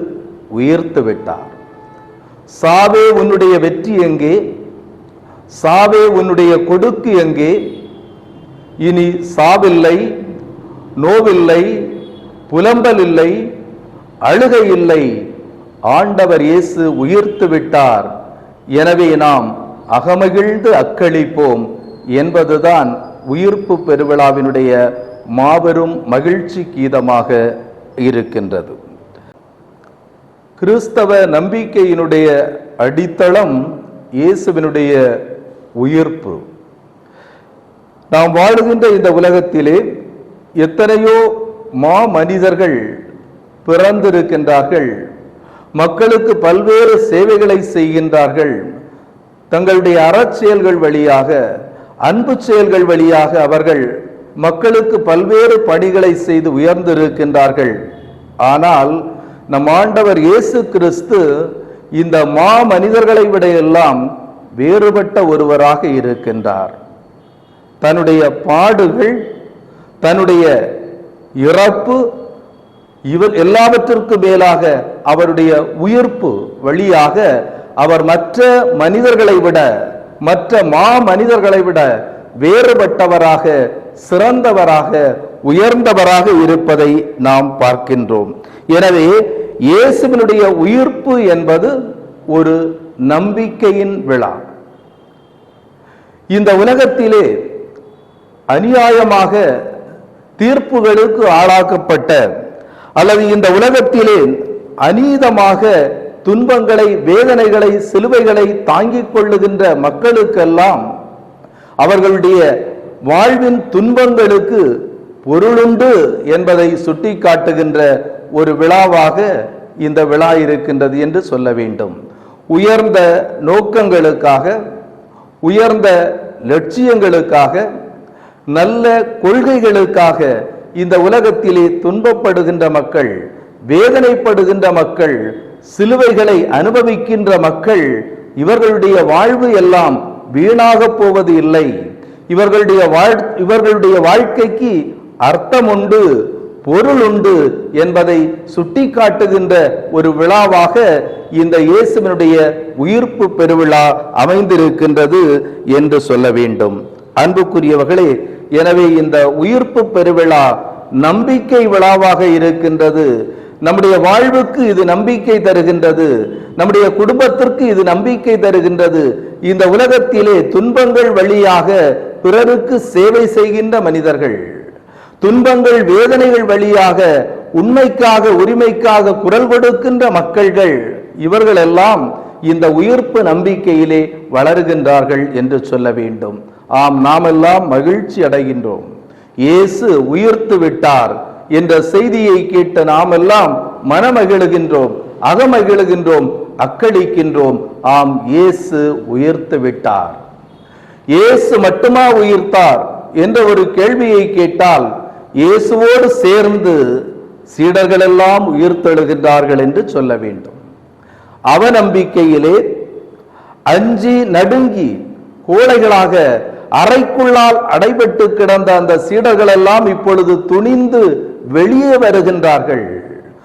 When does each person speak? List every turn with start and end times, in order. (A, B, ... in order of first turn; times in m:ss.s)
0:00.5-0:01.6 A
0:02.6-0:04.4 A
0:05.6-0:07.6 A
0:08.8-0:10.0 A
0:11.0-0:11.9 A
0:12.5-0:13.4 A
0:14.2-0:15.1 A
0:15.9-0:18.1 A
0:18.8-0:24.8 A
0:25.3-0:27.4 A
0:28.0-0:28.8 A
0:30.6-0:33.6 A
0:34.2-0:35.0 A
0:35.8-0:36.4 A
0:38.1-0:39.8 A
0:40.6-0:42.8 A
0:43.6-0:44.9 A
0:45.8-0:48.6 A
0:49.5-0:51.4 A
0:52.0-0:53.9 A
0:54.4-0:57.8 A
0:58.4-1:04.0 A
1:04.6-1:06.8 A
1:07.8-1:09.2 A
1:10.0-1:10.5 A
1:11.4-1:12.0 A
1:13.1-1:17.3 A
1:17.8-1:19.7 A
1:20.2-1:21.9 A
1:22.4-1:31.7 A
1:32.3-1:34.4 A
1:36.3-1:37.3 A
1:38.5-1:39.4 A
1:40.4-1:42.2 A
1:43.0-1:45.7 A
1:46.2-1:50.8 A
1:51.8-1:52.4 A
1:53.1-1:54.6 A
1:55.3-1:59.3 A
1:59.8-2:02.0 A
2:02.5-2:04.6 A
2:05.4-2:07.6 A
2:08.5-2:13.2 A
2:13.7-2:21.7 A
2:22.3-2:26.1 A
2:26.6-2:30.8 A
2:31.4-2:43.1 A
2:43.6-2:54.4 A
2:55.2-3:08.9 A
3:09.4-3:20.2 A
3:21.1-3:26.8 A
3:27.5-3:30.6 A
3:31.5-3:32.6 A
3:33.7-3:35.0 A
3:35.5-3:36.2 A
3:36.8-3:42.9 A